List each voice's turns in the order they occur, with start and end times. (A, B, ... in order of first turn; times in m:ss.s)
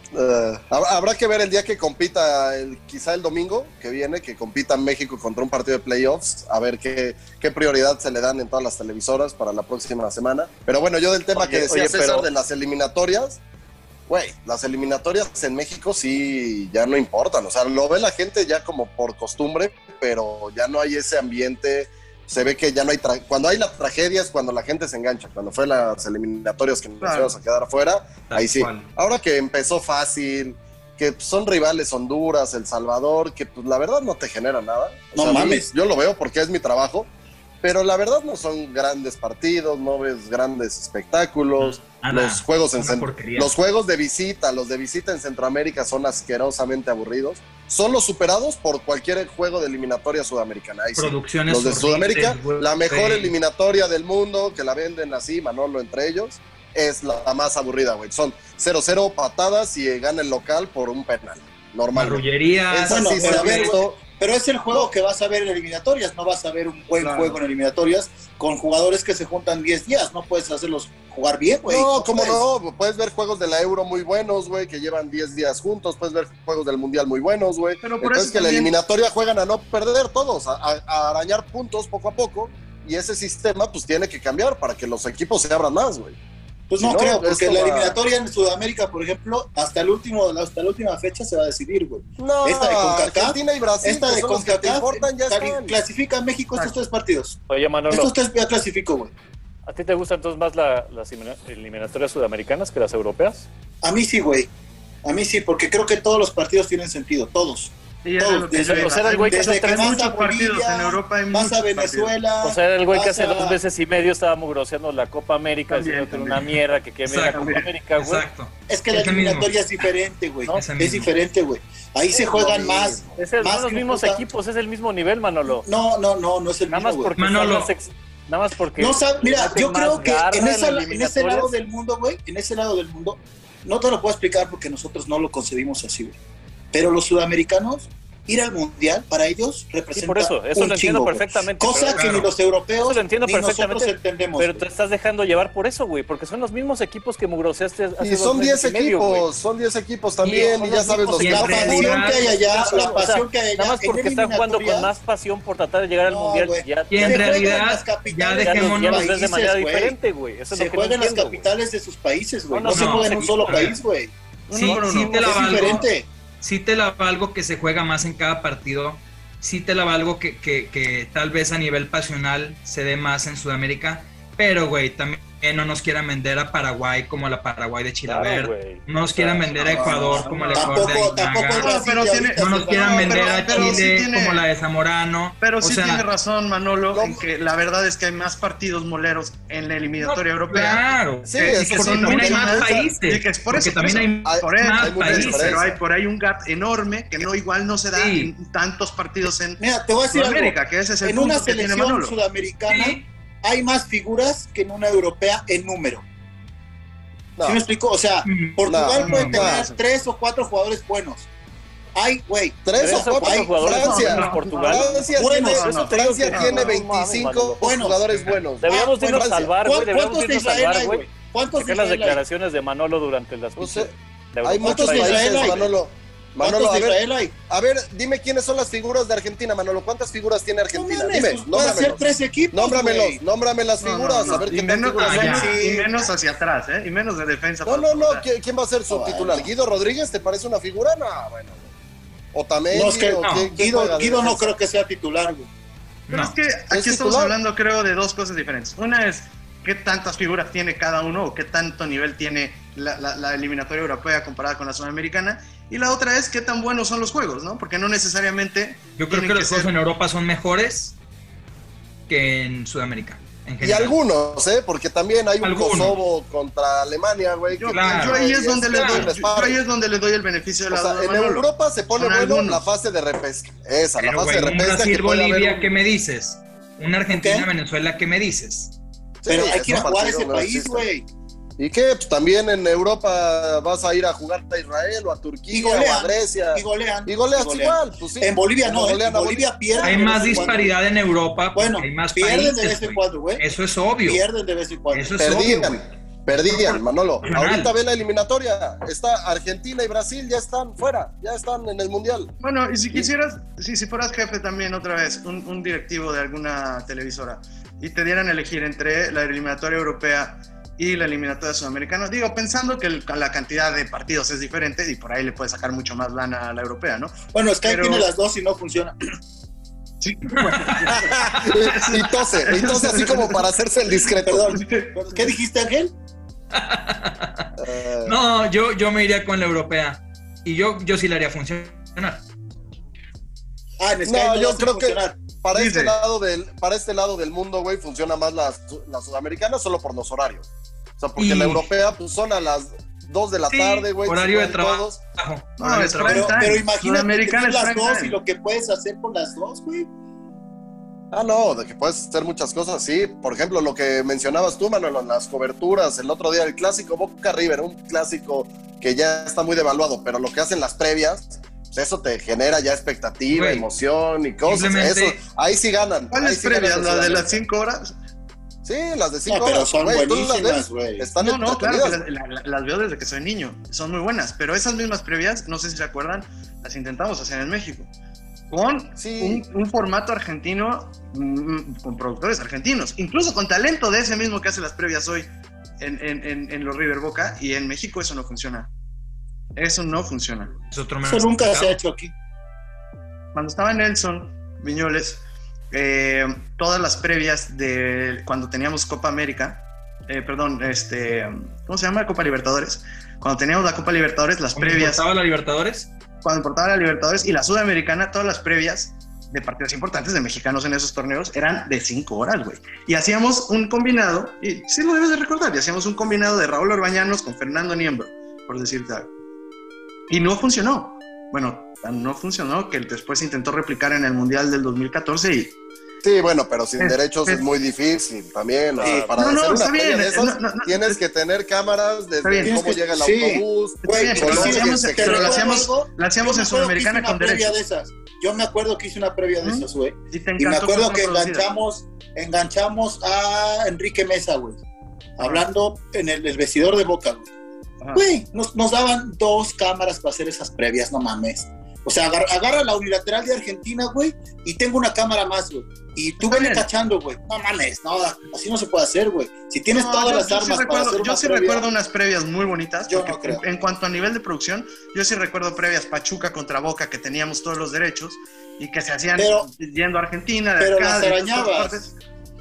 0:00.1-0:13.4 A
0:11.4-0:12.3 B
0:14.1-0:37.1 A
0:27.0-0:27.3 C
0:28.3-0:28.9 D
0:35.1-0:35.7 E
0:37.6-1:04.0 A
0:41.6-0:43.5 D
0:51.0-0:53.3 D
1:01.9-1:03.8 D
1:02.9-1:12.4 E
1:07.0-1:07.4 C
1:11.6-1:26.2 A
1:17.8-1:18.7 C
1:26.7-1:39.1 E
1:26.8-1:28.0 A
1:32.2-1:35.8 A
1:37.5-1:38.1 B
1:39.6-1:43.5 B
1:43.8-1:44.5 E
1:45.0-1:53.6 E
1:48.0-1:52.1 C
1:48.7-1:50.0 B
1:52.4-1:58.2 B
1:55.7-1:56.5 C
1:57.0-1:59.5 D
1:57.3-1:57.7 C
1:58.7-2:04.2 E
2:00.5-2:01.1 D
2:02.1-2:03.2 A
2:03.2-2:05.6 B
2:05.5-2:07.2 E
2:06.7-2:11.5 B
2:07.2-2:07.7 D
2:08.8-2:16.2 E
2:16.7-2:24.6 E
2:19.9-2:22.2 B
2:21.9-2:22.3 D
2:22.8-2:29.3 B
2:28.0-2:32.1 A
2:30.2-2:30.5 D
2:30.5-2:34.9 E
2:31.1-2:32.2 D
2:32.2-2:37.6 B
2:36.0-2:40.0 E
2:36.9-2:39.1 D
2:38.4-2:41.5 B
2:40.5-2:44.1 E
2:42.5-2:43.7 B
2:42.7-2:43.8 D
2:44.5-2:45.8 C
2:44.5-2:45.9 D
2:44.6-2:46.1 E
2:46.4-3:06.0 D
2:58.0-3:00.4 B
2:59.7-3:03.9 E
2:59.8-3:00.9 C
3:01.6-3:04.4 C
3:05.4-3:22.2 C
3:06.9-3:07.2 A
3:10.0-3:15.7 D
3:11.2-3:12.9 A
3:14.2-3:15.7 A
3:17.9-3:18.3 D
3:19.6-3:26.0 E
3:22.7-3:23.0 D
3:27.4-3:31.3 E
3:28.2-3:29.2 D
3:28.7-3:29.6 A
3:29.0-3:29.8 C
3:31.9-3:34.0 E
3:32.6-3:39.5 A
3:32.8-3:37.7 B
3:33.8-3:36.7 C
3:35.1-3:35.8 E
3:37.6-3:38.0 E
3:38.6-3:45.6 B
3:38.6-3:42.2 E
3:43.6-3:55.5 A
3:44.6-3:45.7 E
3:46.4-3:47.3 E
3:50.7-3:53.2 E
3:53.8-3:58.2 C
3:55.0-3:55.5 D
3:55.1-3:56.0 E
3:57.6-4:01.7 A
3:58.9-3:59.5 E
4:02.3-4:04.5 A
4:02.7-4:05.5 E
4:03.2-4:03.5 D
4:06.1-4:06.3 D
4:06.1-4:19.7 C
4:06.7-4:07.4 A
4:19.0-4:21.0 D
4:22.1-4:23.9 D
4:23.6-4:29.6 A
4:25.4-4:26.0 D
4:27.5-4:32.7 C
4:27.7-4:29.1 D
4:30.7-4:35.7 A
4:34.0-4:38.7 D
4:37.1-4:37.5 E
4:39.2-4:40.9 A
4:39.3-4:41.0 E
4:41.6-4:50.5 A
4:45.5-4:50.8 E
4:49.8-4:54.2 D
4:51.5-4:55.7 E
4:54.9-4:55.8 D
4:55.2-5:02.3 A
4:57.2-4:57.7 D
5:02.4-5:18.1 C
5:17.3-5:18.9 E
5:20.0-5:23.5 C
5:20.4-5:21.0 D
5:21.0-5:24.6 A
5:24.2-5:25.9 E
5:24.5-5:25.2 C
5:26.5-5:27.5 D
5:27.6-5:28.2 A
5:28.0-5:32.2 D
5:33.8-5:35.2 E
5:34.0-5:40.5 A
5:35.5-5:36.0 C
5:41.0-5:45.0 A
5:41.2-5:41.7 D
5:43.5-5:46.5 D
5:45.6-5:48.2 C
5:46.0-5:49.9 E
5:51.1-6:07.4 A
6:03.3-6:03.7 D
6:04.4-6:05.2 D
6:06.1-6:07.9 C
6:08.6-6:12.0 A
6:09.3-6:11.1 E
6:11.2-6:17.9 C
6:18.5-6:25.3 C
6:19.0-6:19.4 A
6:25.8-6:28.7 C
6:29.6-6:30.5 C
6:30.7-6:31.8 D
6:31.0-6:32.1 E
6:33.3-6:45.0 C
6:44.5-6:45.9 D
6:46.2-6:59.1 C
7:00.1-7:05.5 C
7:06.0-7:15.6 A
7:06.8-7:07.4 C
7:08.7-7:09.2 B
7:09.1-7:11.0 C
7:12.2-7:12.5 C
7:12.4-7:24.6 E
7:13.8-7:17.6 C
7:19.4-7:21.5 C
7:25.2-7:27.3 E
7:25.2-7:25.4 C
7:27.9-7:41.7 E
7:36.2-7:36.7 C
7:39.7-7:51.9 C
7:42.9-7:43.4 E
7:49.2-7:49.5 E
7:50.6-7:51.9 E